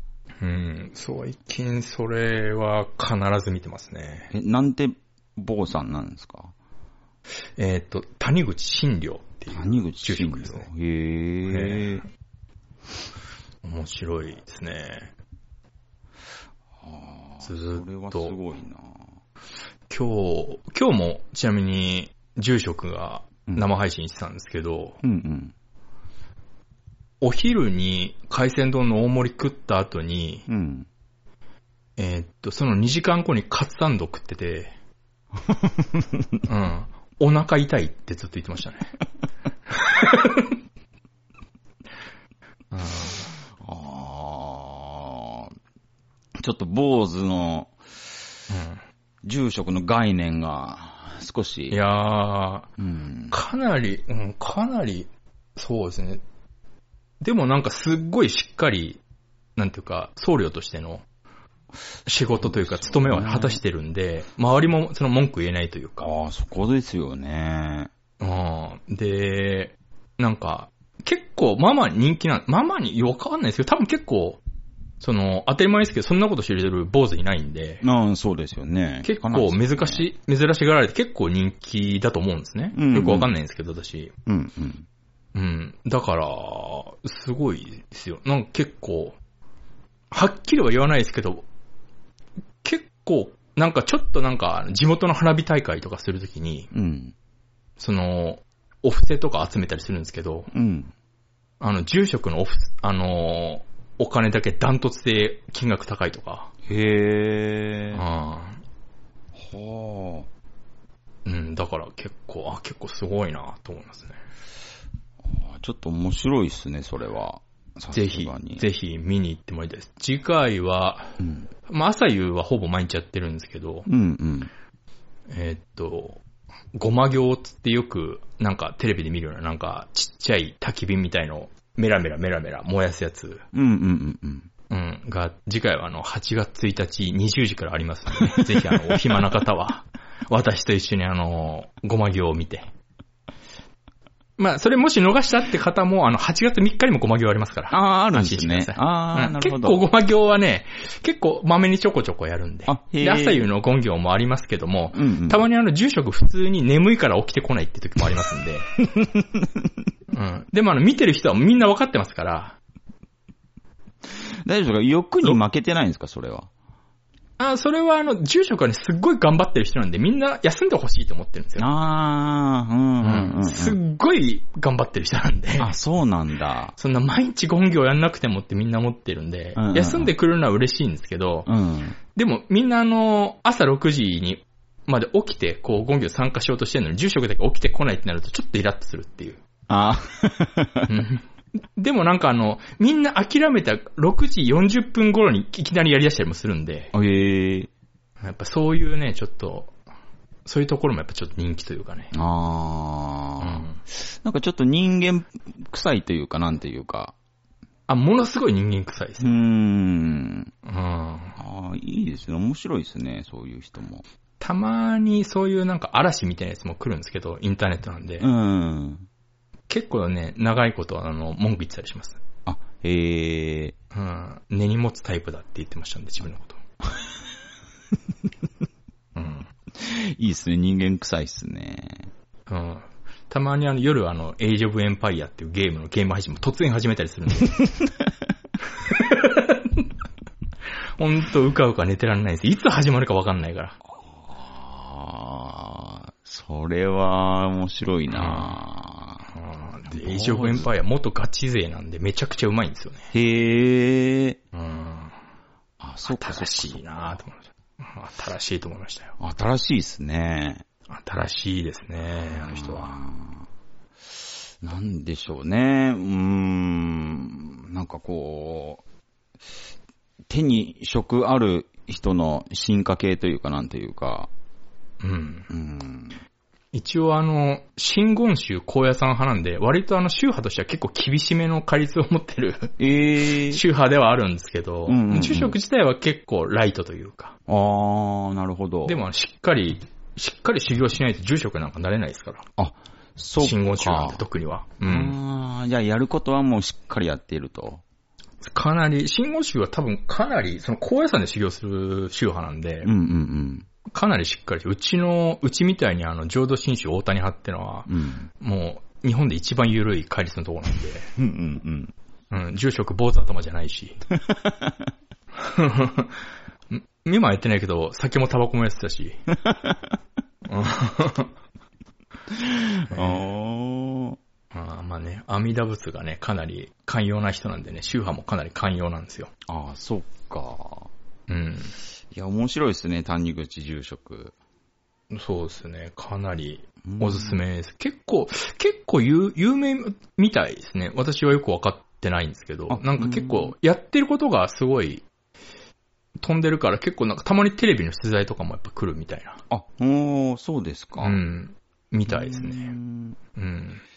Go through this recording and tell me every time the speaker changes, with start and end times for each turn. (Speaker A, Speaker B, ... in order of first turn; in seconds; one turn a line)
Speaker A: 0.4-4.3
Speaker B: 4.3-6.5
Speaker A: 7.6-10.7
Speaker B: 9.5-12.1
Speaker A: 11.5-12.0
Speaker A: 13.6-15.1
Speaker B: 16.8-19.2
Speaker A: 17.4-18.3
Speaker A: 19.9-25.0
Speaker B: 25.0-25.5
Speaker A: 27.2-30.5
Speaker B: 30.5-30.9
Speaker A: 32.0-34.8
Speaker B: 35.5-36.3
Speaker A: 36.5-38.9
Speaker A: 39.7-40.5
Speaker A: 42.7-43.3
Speaker B: 43.6-45.5
Speaker B: 46.4-47.8
Speaker A: 48.5-48.8
Speaker B: 49.2-51.8
Speaker A: 51.7-52.7
Speaker B: 52.8-53.4
Speaker A: 53.3-56.2
Speaker A: 57.2-59.0
Speaker A: 59.6-61.0
Speaker A: 62.1-66.1
Speaker B: 62.3-63.6
Speaker B: 66.0-67.9
Speaker A: 68.2-74.4
Speaker A: 75.0-77.8
Speaker B: 77.8-80.1
Speaker A: 79.0-84.1
Speaker B: 82.7-83.3
Speaker B: 84.3-84.9
Speaker A: 85.3-89.2
Speaker A: 90.1-91.4
Speaker A: 92.6-96.7
Speaker B: 96.7-97.1
Speaker A: 97.8-100.5
Speaker B: 100.5-100.9
Speaker A: 101.6-106.5
Speaker B: 106.7-108.0
Speaker A: 107.9-108.6
Speaker B: 109.3-110.3
Speaker A: 111.2-114.2
Speaker B: 115.2-118.7
Speaker A: 117.9-123.9
Speaker B: 121.2-121.5
Speaker B: 123.9-124.5
Speaker A: 125.3-126.2
Speaker A: 126.7-133.4
Speaker B: 133.5-134.5
Speaker A: 134.7-142.7
Speaker B: 138.3-139.3
Speaker A: 144.4-158.7
Speaker B: 147.7-149.9
Speaker B: 152.7-153.5
Speaker B: 154.9-155.4
Speaker B: 158.8-159.7
Speaker A: 160.1-162.6
Speaker B: 164.1-166.5
Speaker A: 167.4-171.7
Speaker B: 171.6-173.8
Speaker A: 173.0-175.7
Speaker B: 175.6-176.8
Speaker A: 176.8-181.5
Speaker B: 179.6-180.1
Speaker B: 181.5-182.0
Speaker A: 182.2-189.4
Speaker B: 189.7-190.9
Speaker A: 190.9-196.9
Speaker B: 196.9-197.7
Speaker A: 198.2-199.7
Speaker A: 200.4-202.1
Speaker B: 202.1-207.1
Speaker A: 203.4-203.8
Speaker A: 207.9-209.4
Speaker B: 209.2-210.5
Speaker A: 210.7-211.4
Speaker B: 211.4-214.0
Speaker A: 214.4-218.3
Speaker B: 218.2-219.1
Speaker A: 219.7-222.2
Speaker B: 222.5-223.8
Speaker A: 223.9-226.6
Speaker A: 229.2-229.5
Speaker B: 229.7-232.1
Speaker A: 232.5-237.6
Speaker A: 238.9-239.9
Speaker A: 241.0-243.8
Speaker B: 244.0-249.3
Speaker A: 248.1-248.6
Speaker A: 249.3-253.1
Speaker B: 249.9-250.7
Speaker B: 253.1-254.4
Speaker A: 254.5-255.1
Speaker B: 255.8-257.2
Speaker A: 256.1-259.1
Speaker B: 259.2-260.6
Speaker A: 260.9-262.9
Speaker B: 262.2-263.5
Speaker B: 264.1-268.8
Speaker B: 270.3-274.3
Speaker A: 275.0-275.5
Speaker B: 275.5-276.2
Speaker A: 276.7-282.8
Speaker B: 282.8-283.6
Speaker A: 283.4-287.4
Speaker B: 284.9-285.6
Speaker B: 287.5-289.0
Speaker A: 288.9-292.5
Speaker B: 292.6-294.2
Speaker A: 293.4-295.2
Speaker B: 294.8-297.8
Speaker A: 298.4-302.9
Speaker B: 302.8-303.7
Speaker A: 303.9-311.1
Speaker B: 307.9-308.3
Speaker B: 311.2-311.9
Speaker A: 312.3-314.0
Speaker B: 314.2-314.9
Speaker A: 315.4-319.2
Speaker A: 320.5-321.3
Speaker B: 322.3-324.2
Speaker A: 322.9-323.3
Speaker A: 324.5-329.3
Speaker B: 329.5-330.9
Speaker A: 331.3-331.7
Speaker B: 332.1-334.3
Speaker A: 335.1-345.0
Speaker B: 336.9-337.4
Speaker B: 342.7-343.5
Speaker A: 346.2-349.4
Speaker B: 349.5-351.2
Speaker A: 351.0-352.7
Speaker B: 352.1-353.2
Speaker A: 353.4-353.8